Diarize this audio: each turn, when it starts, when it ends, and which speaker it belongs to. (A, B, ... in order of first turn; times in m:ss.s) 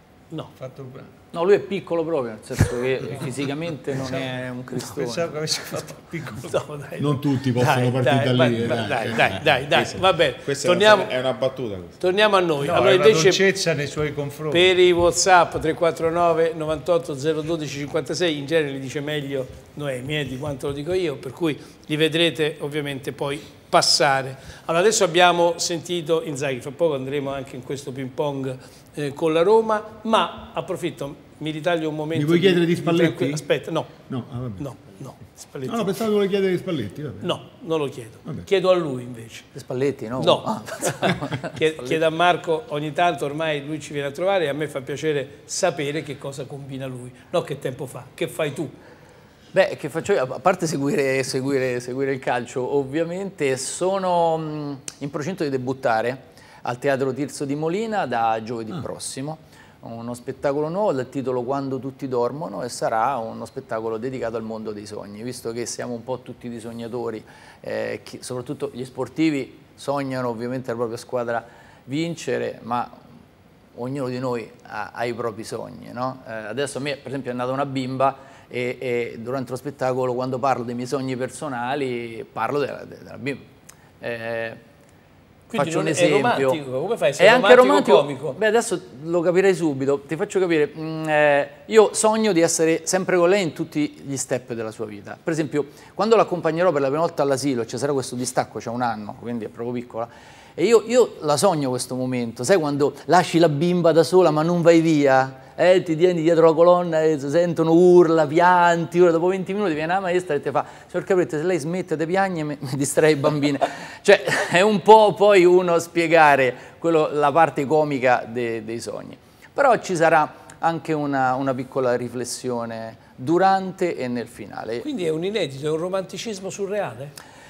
0:00.6-0:01.1 A
0:01.3-0:05.4 B
0:04.1-0:06.6 A
0:06.4-0:11.1 C
0:07.0-0:09.4 D
0:09.5-0:12.0 E
0:12.0-0:13.4 C
0:12.6-0:14.7 A
0:14.5-0:34.0 C
0:32.1-0:33.4 D
0:34.1-0:34.8 D
0:34.6-0:36.0 C
0:35.7-0:37.4 D
0:37.2-0:39.5 C
0:39.5-0:42.0 B
0:40.2-0:48.7 C
0:49.5-1:13.0 B
1:13.7-1:23.5 B
1:24.0-1:24.6 B
1:25.5-1:28.4 C
1:25.5-1:26.6 B
1:27.2-2:04.8 B
2:04.8-2:07.1 C